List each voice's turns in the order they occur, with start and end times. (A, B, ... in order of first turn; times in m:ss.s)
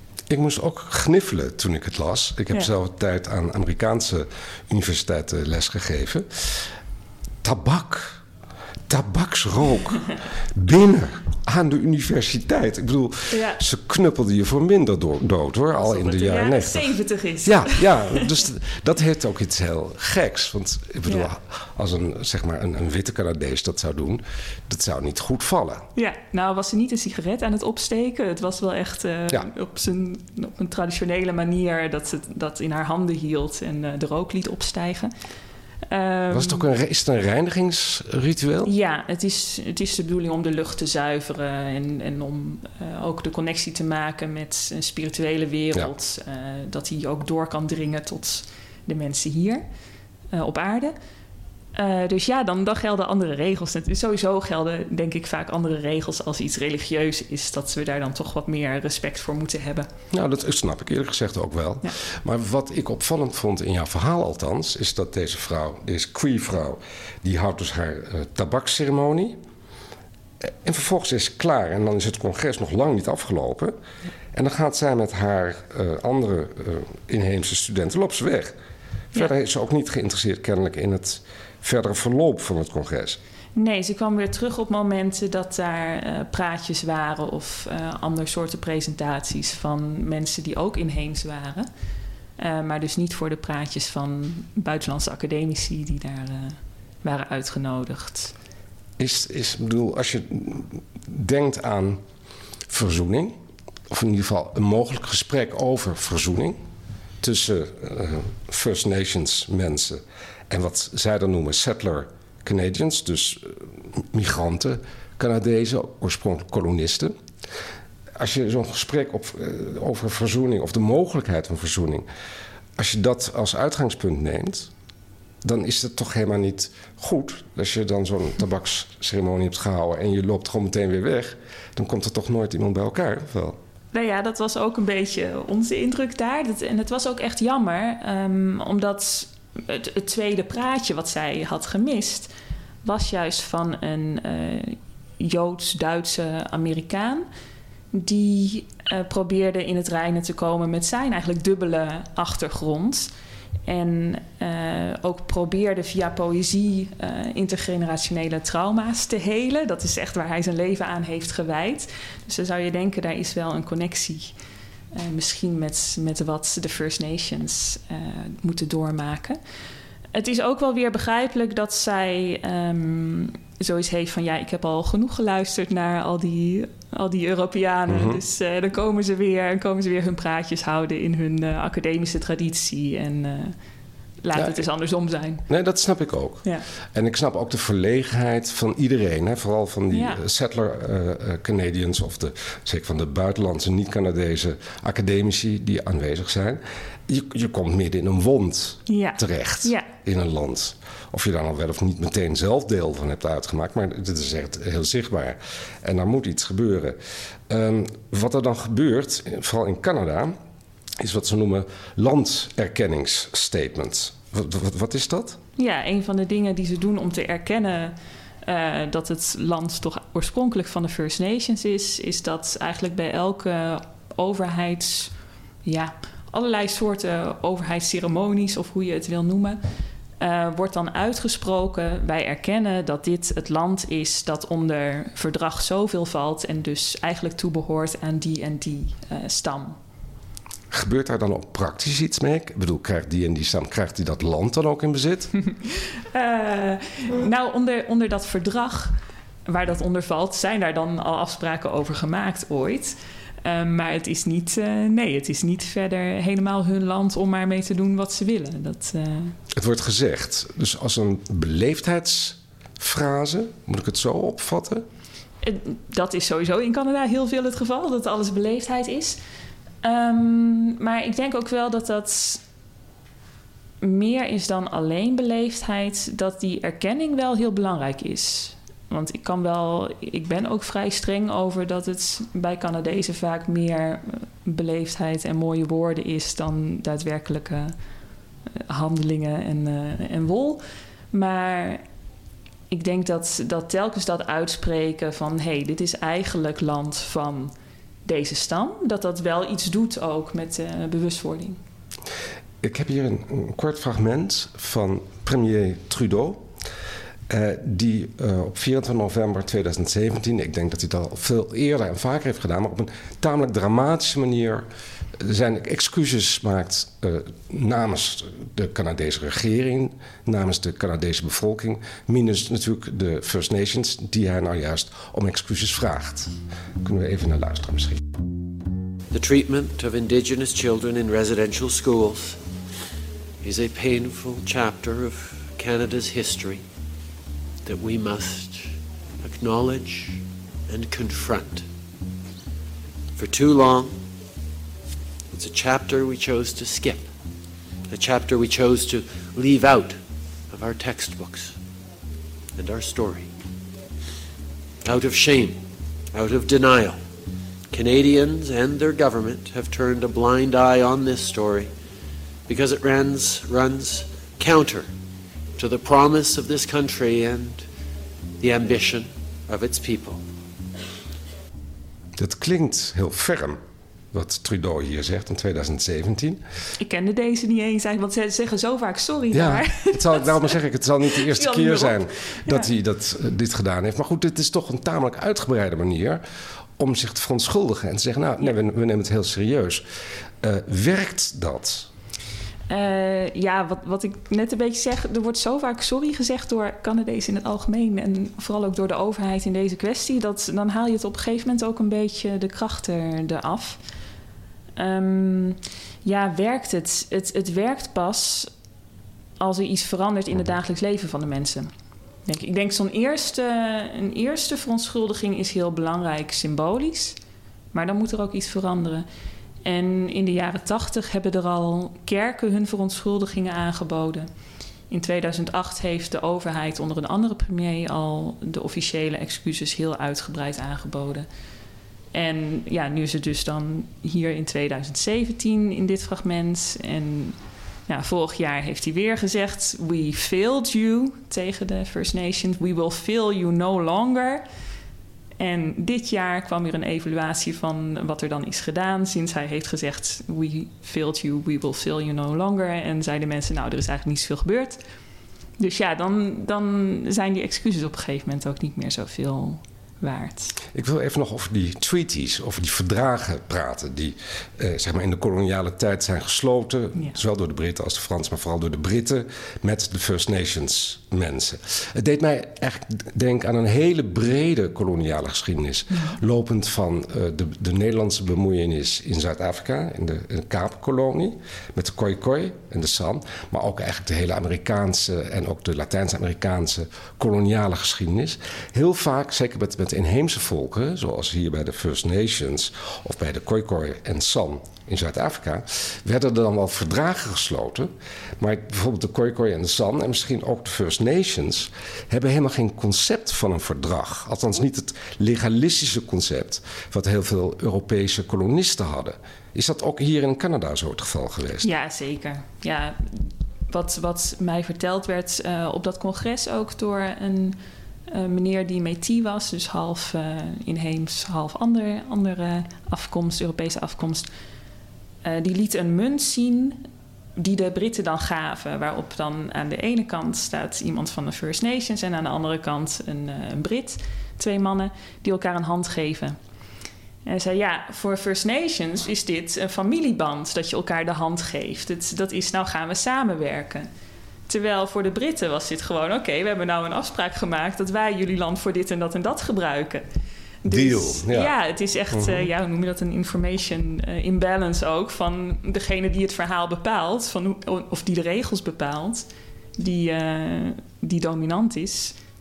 0:00.3-0:06.7 A
0:07.4-0:08.2 A
0:08.9-0:25.9 A
0:13.3-0:13.6 B
0:15.8-0:18.3 B
0:21.1-0:21.3 B
0:26.0-0:35.1 B
0:35.9-0:36.6 B
0:36.3-0:38.7 A
0:38.6-0:49.6 B
0:50.3-0:50.9 B
0:51.8-0:59.9 B
1:00.1-1:09.4 A
1:10.4-1:13.8 A
1:14.3-1:18.6 A
1:19.1-1:23.2 A
1:23.6-1:31.7 B
1:32.4-1:38.3 B
1:39.0-1:42.0 A
1:42.7-1:43.4 A
1:43.9-1:46.6 A
1:47.2-1:57.2 A
1:58.2-2:02.1 A
2:02.8-2:04.7 A
2:05.4-2:13.6 A
2:13.9-2:22.3 B
2:22.8-2:27.2 B
2:27.9-2:33.1 B
2:33.7-2:44.3 B
2:44.9-2:49.4 B
2:50.1-3:03.6 B
2:57.9-2:58.2 A
3:04.2-3:05.4 B
3:04.3-3:04.7 A
3:05.5-3:27.0 A
3:09.9-3:10.2 B
3:18.9-3:19.9 B
3:27.5-3:30.4 A
3:31.0-3:35.4 A
3:35.6-3:45.1 B
3:45.6-3:49.6 B
3:50.2-3:59.8 B
4:00.7-4:05.3 A
4:06.1-4:19.4 B
4:19.5-4:24.9 A
4:25.4-4:29.2 B
4:29.8-4:32.4 B
4:33.8-4:47.7 B
4:48.6-4:51.8 B
4:52.7-4:57.5 B
4:58.0-5:01.6 B
5:02.6-5:06.5 A
5:07.3-5:28.0 A
5:29.1-5:32.4 C
5:33.4-5:36.6 C
5:37.6-5:41.7 C
5:43.2-5:44.0 C
5:45.3-5:47.1 C
5:47.9-5:50.0 C
5:50.5-5:51.6 C
5:52.6-5:53.3 C
5:54.8-5:55.6 C
5:56.1-5:57.0 C
5:57.7-6:01.7 C
6:02.5-6:04.9 C
6:05.6-6:07.7 C
6:08.4-6:10.2 C
6:12.2-6:13.6 A
6:14.1-6:16.4 A
6:16.8-6:20.6 B
6:19.3-6:26.2 A
6:21.2-6:22.7 B
6:26.8-6:29.8 A
6:30.4-6:31.9 A
6:32.7-6:43.8 B
6:44.8-6:48.5 B
6:49.4-6:51.7 B
6:52.3-6:57.2 B
6:57.7-6:59.0 B
6:59.6-7:04.3 B
7:04.9-7:11.3 B
7:12.1-7:17.4 B
7:17.9-7:24.4 B
7:25.4-7:34.8 B
7:35.6-7:40.6 B
7:40.7-8:31.7 A
7:55.9-7:56.2 B
8:31.6-8:37.6 B
8:38.1-8:44.3 B
8:45.2-8:46.8 B
8:47.4-8:56.4 B
8:57.3-9:03.9 B
9:04.5-9:10.0 B
9:10.6-9:22.2 B
9:10.7-9:11.5 A
9:12.1-9:12.5 A